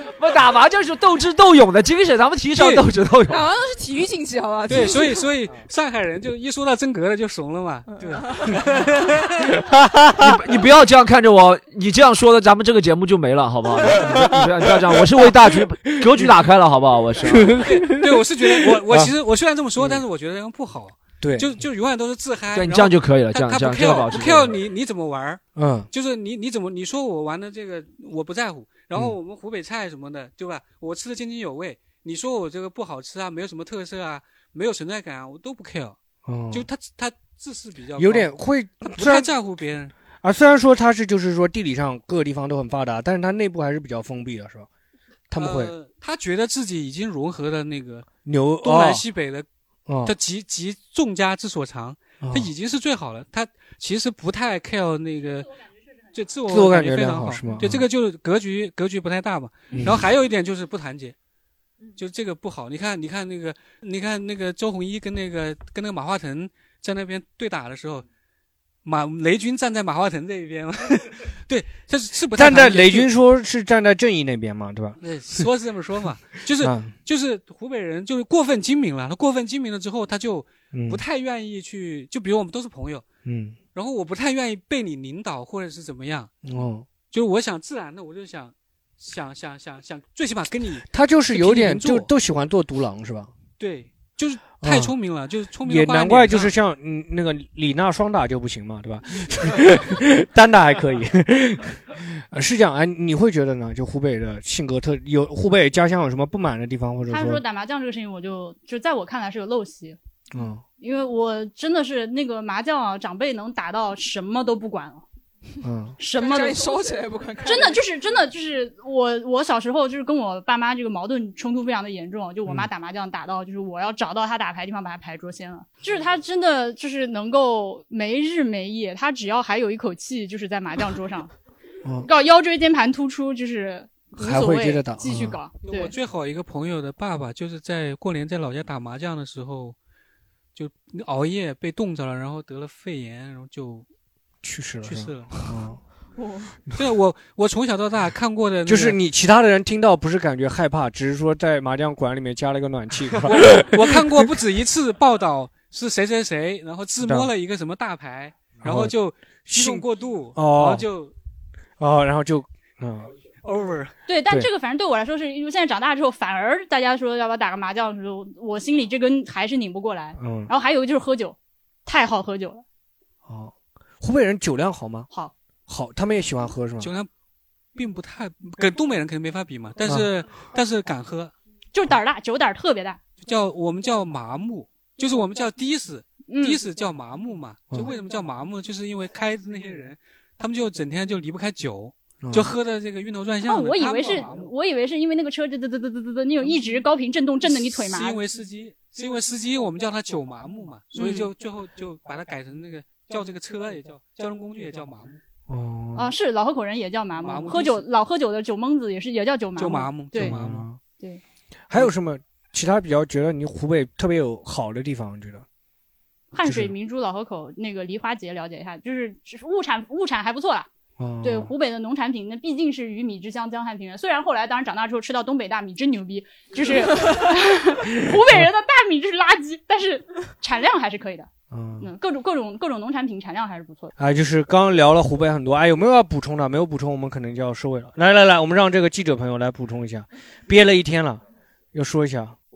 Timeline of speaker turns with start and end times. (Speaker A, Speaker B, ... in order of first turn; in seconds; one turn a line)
Speaker A: 0.1-3.5
Speaker B: 2.5-2.9
Speaker C: 3.3-5.1
Speaker B: 4.7-9.5
Speaker C: 7.9-8.5
Speaker D: 9.7-10.3
Speaker A: 10.2-17.7
Speaker D: 13.9-16.3
Speaker D: 17.2-19.1
Speaker B: 17.6-36.0
Speaker D: 21.2-21.6
Speaker A: 22.5-24.5
Speaker D: 25.6-25.9
Speaker D: 36.2-36.7
Speaker B: 36.5-38.3
Speaker D: 38.0-39.3
Speaker B: 38.9-39.9
Speaker D: 40.2-44.7
Speaker D: 45.3-45.7
Speaker B: 45.4-48.1
Speaker D: 48.2-49.0
Speaker B: 48.6-49.5
Speaker D: 49.9-50.1
Speaker B: 50.0-55.5
Speaker D: 52.2-52.5
Speaker B: 56.1-61.1
Speaker D: 56.5-57.9
Speaker D: 59.7-60.0
Speaker B: 62.0-68.0
Speaker B: 68.8-73.1
Speaker D: 72.3-75.5
Speaker B: 75.0-83.0
Speaker D: 76.6-76.9
Speaker D: 80.7-81.0
Speaker D: 83.2-83.6
Speaker B: 83.7-86.3
Speaker D: 86.4-86.9
Speaker B: 87.1-92.1
Speaker D: 90.9-93.3
Speaker B: 93.6-96.5
Speaker D: 94.6-94.9
Speaker D: 95.6-107.4
Speaker E: 107.1-110.0
Speaker D: 110.3-110.6
Speaker E: 110.8-115.0
Speaker D: 115.6-116.0
Speaker E: 116.0-131.3
Speaker C: 116.1-117.8
Speaker E: 132.0-135.9
Speaker D: 134.2-135.4
Speaker B: 135.6-139.8
Speaker B: 140.5-143.8
Speaker D: 144.4-145.8
Speaker B: 144.8-145.5
Speaker C: 146.2-146.5
Speaker B: 146.7-149.0
Speaker D: 148.7-154.2
Speaker B: 153.2-161.1
Speaker D: 157.0-157.3
Speaker D: 158.6-158.9
Speaker D: 159.4-160.8
Speaker D: 161.8-163.1
Speaker B: 163.4-163.9
Speaker E: 164.1-172.6
Speaker D: 170.2-170.5
Speaker D: 173.2-175.1
Speaker D: 175.7-176.9
Speaker B: 176.8-177.1
Speaker B: 177.7-181.3
Speaker E: 181.7-183.0
Speaker B: 183.2-194.5
Speaker E: 186.3-186.6
Speaker D: 192.2-192.5
Speaker E: 193.4-198.2
Speaker B: 197.4-205.2
Speaker E: 200.9-201.3
Speaker D: 205.5-206.1
Speaker E: 205.9-210.4
Speaker B: 207.2-207.8
Speaker B: 209.6-210.7
Speaker D: 210.1-210.8
Speaker D: 211.7-215.4
Speaker E: 216.3-220.7
Speaker D: 216.4-216.7
Speaker D: 221.0-221.5
Speaker E: 221.2-231.3
Speaker D: 228.1-228.5
Speaker D: 231.5-231.9
Speaker E: 231.8-233.9
Speaker D: 234.0-241.2
Speaker D: 241.7-242.3